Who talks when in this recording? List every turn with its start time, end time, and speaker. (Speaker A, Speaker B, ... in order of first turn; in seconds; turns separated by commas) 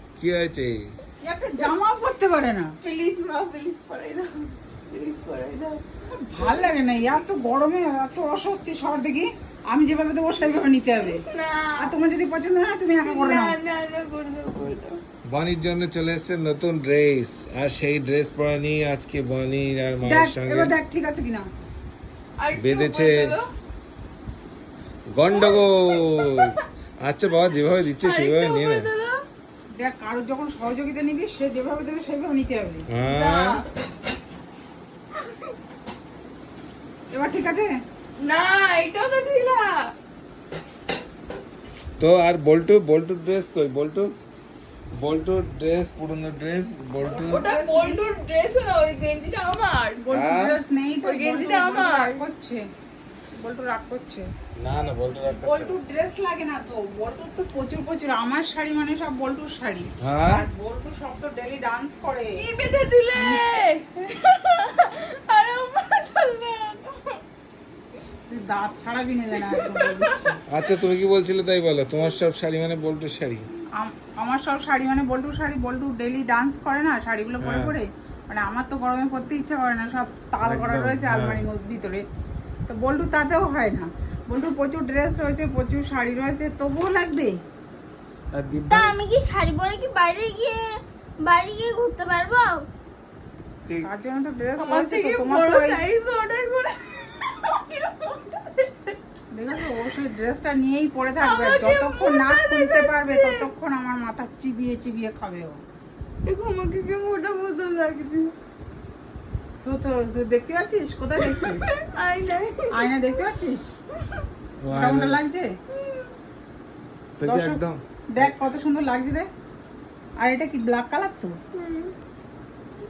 Speaker A: 0.2-0.9, Speaker B: 1.2-2.7, Speaker C: 2.8-5.8, Speaker B: 6.1-11.2, Speaker C: 6.4-6.8, Speaker C: 11.0-11.9, Speaker B: 11.8-13.6, Speaker C: 13.0-15.0, Speaker A: 15.3-20.8, Speaker B: 20.0-21.4, Speaker C: 22.4-23.4, Speaker A: 22.6-23.3, Speaker A: 25.1-28.9, Speaker C: 25.3-25.6, Speaker C: 28.0-29.1, Speaker B: 29.8-32.8, Speaker A: 32.9-33.6, Speaker C: 33.1-33.7, Speaker B: 37.1-37.7, Speaker C: 38.2-39.7, Speaker A: 42.0-44.1, Speaker A: 45.0-47.5, Speaker B: 47.0-48.0, Speaker C: 47.3-50.0, Speaker B: 50.0-52.6, Speaker A: 50.1-50.6, Speaker C: 51.0-52.2, Speaker B: 53.4-54.3, Speaker A: 54.6-55.8, Speaker B: 55.4-62.4, Speaker A: 60.0-60.5, Speaker C: 62.4-67.2, Speaker B: 68.3-70.4, Speaker C: 69.4-70.3, Speaker A: 70.5-73.5, Speaker B: 73.8-82.0, Speaker A: 77.4-77.8, Speaker A: 80.4-81.4, Speaker B: 82.7-87.3, Speaker A: 88.3-89.0, Speaker D: 88.7-92.7, Speaker A: 93.7-93.9, Speaker B: 93.8-95.8, Speaker C: 94.6-99.0, Speaker B: 99.3-105.6, Speaker C: 101.2-103.5, Speaker C: 106.2-108.3, Speaker B: 109.6-111.6, Speaker C: 111.2-112.9, Speaker B: 112.7-113.6, Speaker A: 114.6-115.2, Speaker B: 114.7-115.5, Speaker A: 117.2-118.3, Speaker B: 117.2-117.6, Speaker B: 118.1-119.3, Speaker B: 120.2-121.3, Speaker C: 121.5-121.9